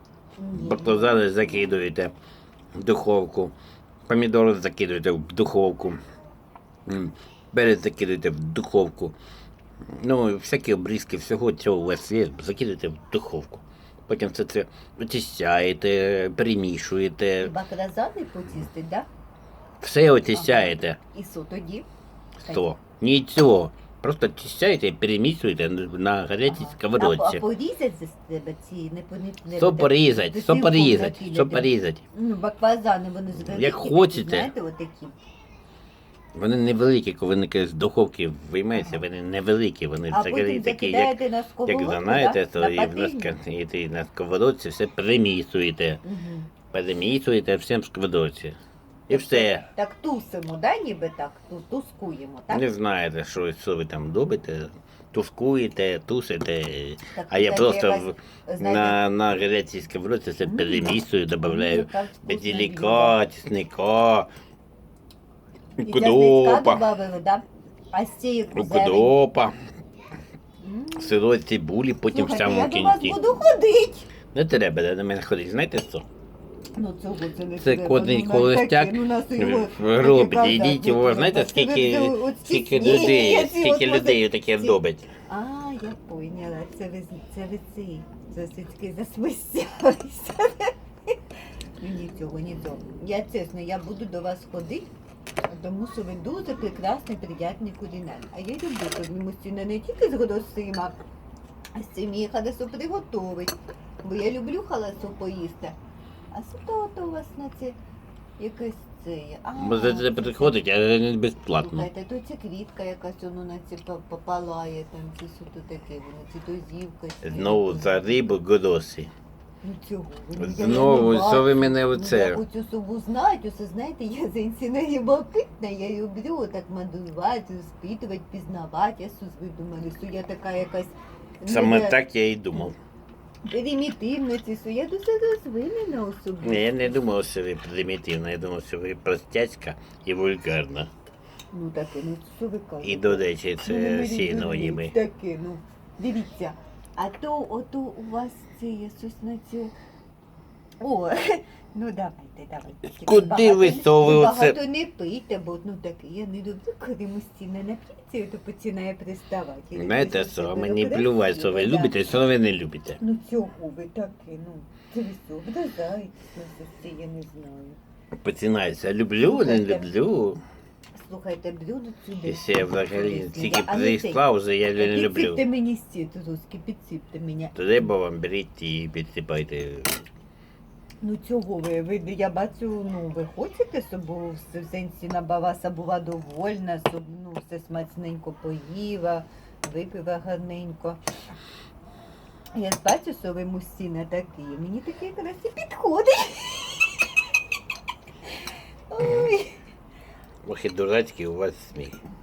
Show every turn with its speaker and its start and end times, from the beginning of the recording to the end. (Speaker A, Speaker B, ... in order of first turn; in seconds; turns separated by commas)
Speaker A: 0.4-1.7, Speaker B: 0.5-2.1, Speaker B: 2.7-3.5, Speaker B: 4.1-6.0, Speaker B: 6.8-9.2, Speaker B: 9.9-17.5, Speaker A: 17.4-19.1, Speaker B: 19.8-21.0, Speaker A: 20.3-21.9, Speaker A: 22.4-22.7, Speaker B: 22.5-27.4, Speaker A: 26.4-35.1, Speaker B: 29.5-32.0, Speaker B: 33.3-34.5, Speaker B: 36.3-46.0, Speaker A: 38.7-39.0, Speaker A: 40.1-43.3, Speaker A: 46.0-46.5, Speaker B: 46.7-48.6, Speaker B: 49.1-49.6, Speaker A: 49.1-52.7, Speaker B: 52.5-64.3, Speaker A: 57.1-59.0, Speaker A: 60.4-63.2, Speaker B: 65.8-66.8, Speaker A: 65.8-69.1, Speaker B: 68.5-69.5, Speaker A: 70.6-71.2, Speaker B: 71.0-73.2, Speaker A: 72.1-74.0, Speaker B: 74.3-76.0, Speaker A: 76.8-84.8, Speaker B: 77.6-85.1, Speaker A: 85.3-91.2, Speaker A: 91.8-94.9, Speaker A: 95.5-101.0, Speaker A: 101.7-105.8, Speaker A: 106.3-107.8, Speaker A: 108.4-110.6, Speaker B: 109.5-111.9, Speaker A: 111.6-118.2, Speaker B: 117.2-119.1, Speaker A: 119.6-132.0, Speaker B: 120.4-122.4, Speaker B: 131.4-132.8, Speaker A: 133.4-137.0, Speaker B: 136.4-140.9, Speaker A: 141.5-149.7, Speaker B: 142.8-144.9, Speaker A: 150.8-162.1, Speaker B: 153.0-154.6, Speaker B: 159.8-163.0, Speaker A: 163.0-167.8, Speaker B: 168.2-170.4, Speaker A: 169.2-169.9, Speaker A: 170.9-174.2, Speaker B: 172.2-175.4, Speaker A: 174.7-177.9, Speaker B: 177.5-180.0, Speaker A: 181.0-191.0, Speaker A: 192.5-197.1, Speaker A: 198.9-199.6, Speaker B: 200.4-202.0